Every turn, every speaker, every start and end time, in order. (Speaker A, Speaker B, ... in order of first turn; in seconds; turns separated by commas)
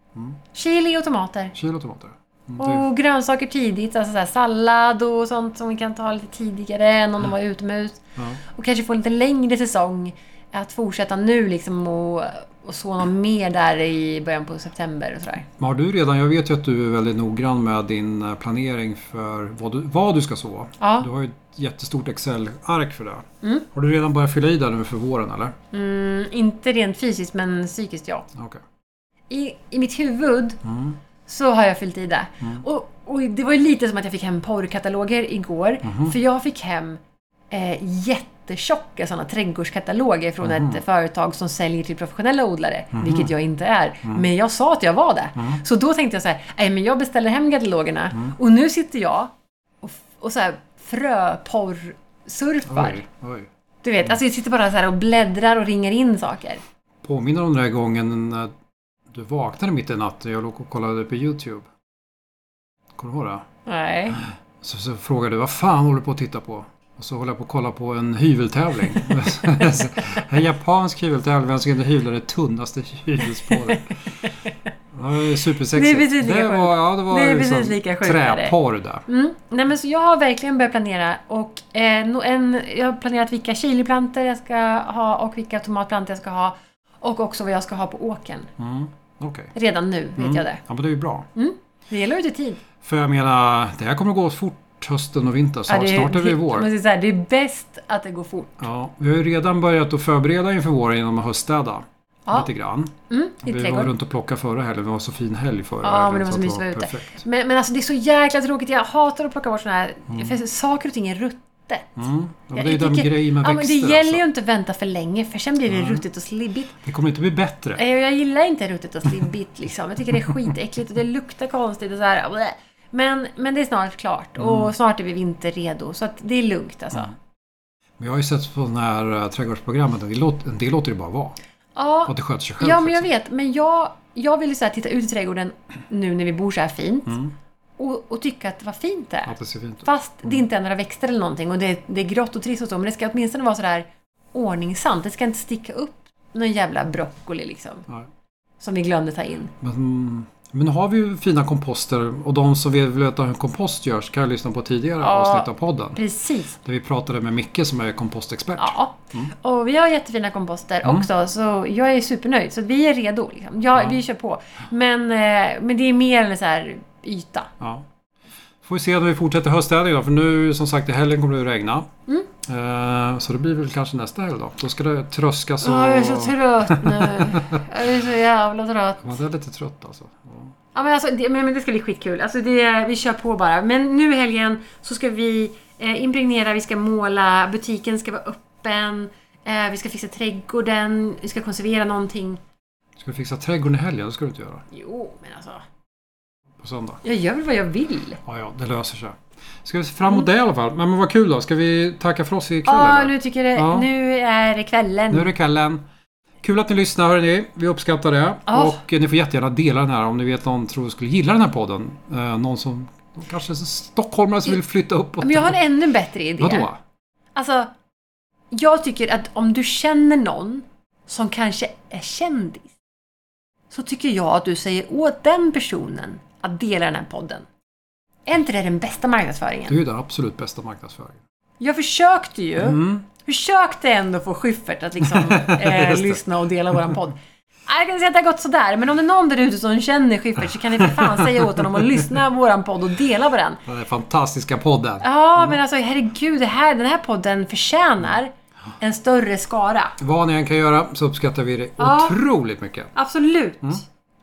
Speaker A: 0.5-1.6, Speaker B: 1.6-2.9, Speaker A: 2.6-15.5, Speaker B: 15.6-25.6, Speaker A: 20.8-21.1, Speaker A: 25.7-28.3, Speaker B: 28.4-28.6, Speaker A: 29.3-30.6, Speaker B: 30.6-31.0, Speaker A: 31.3-37.0, Speaker B: 35.9-36.2, Speaker A: 37.5-53.0, Speaker B: 40.4-40.8, Speaker B: 42.9-43.3, Speaker B: 52.7-53.5, Speaker A: 53.8-56.6, Speaker B: 57.0-58.5, Speaker B: 59.1-61.7, Speaker B: 63.0-63.5, Speaker A: 63.7-64.2, Speaker B: 64.6-74.0, Speaker A: 73.5-74.5, Speaker B: 74.9-79.0, Speaker A: 75.7-78.5, Speaker A: 79.1-88.5, Speaker B: 88.6-89.5, Speaker A: 89.5-90.6, Speaker B: 90.2-91.3, Speaker A: 91.3-92.6, Speaker B: 92.8-96.7, Speaker A: 95.7-98.6, Speaker B: 98.6-102.9, Speaker A: 103.1-103.9, Speaker B: 103.5-107.2, Speaker A: 105.8-112.0, Speaker B: 110.1-110.4, Speaker B: 112.0-114.2, Speaker A: 112.5-116.7, Speaker B: 115.7-116.0, Speaker B: 116.8-117.8, Speaker A: 117.8-127.1, Speaker B: 124.4-124.7, Speaker B: 128.0-131.4, Speaker A: 131.8-137.2, Speaker B: 132.1-133.1, Speaker B: 137.1-137.3, Speaker A: 137.8-147.9, Speaker B: 139.3-140.4, Speaker A: 148.6-149.5, Speaker B: 149.6-156.0, Speaker A: 155.0-156.6, Speaker B: 156.6-159.3, Speaker A: 158.6-167.5, Speaker B: 167.6-167.9, Speaker B: 168.6-171.9, Speaker B: 172.4-177.7, Speaker A: 175.6-179.1, Speaker B: 179.0-180.5, Speaker A: 180.7-192.4, Speaker B: 193.0-194.6, Speaker A: 194.7-195.6, Speaker B: 196.6-197.0, Speaker A: 197.0-198.2, Speaker B: 198.2-203.9, Speaker A: 202.7-205.3, Speaker B: 205.1-205.8, Speaker B: 206.4-215.6, Speaker A: 208.5-208.8, Speaker A: 215.2-216.7, Speaker B: 216.4-216.8, Speaker A: 217.4-217.7, Speaker A: 218.5-222.7, Speaker A: 223.7-227.5, Speaker A: 228.3-229.8, Speaker B: 229.7-231.2, Speaker A: 231.6-243.6, Speaker B: 232.6-233.1, Speaker B: 235.0-236.2, Speaker B: 240.8-242.2, Speaker B: 243.7-245.6, Speaker A: 245.0-250.0, Speaker B: 250.0-252.9, Speaker A: 251.8-252.2, Speaker A: 252.9-253.8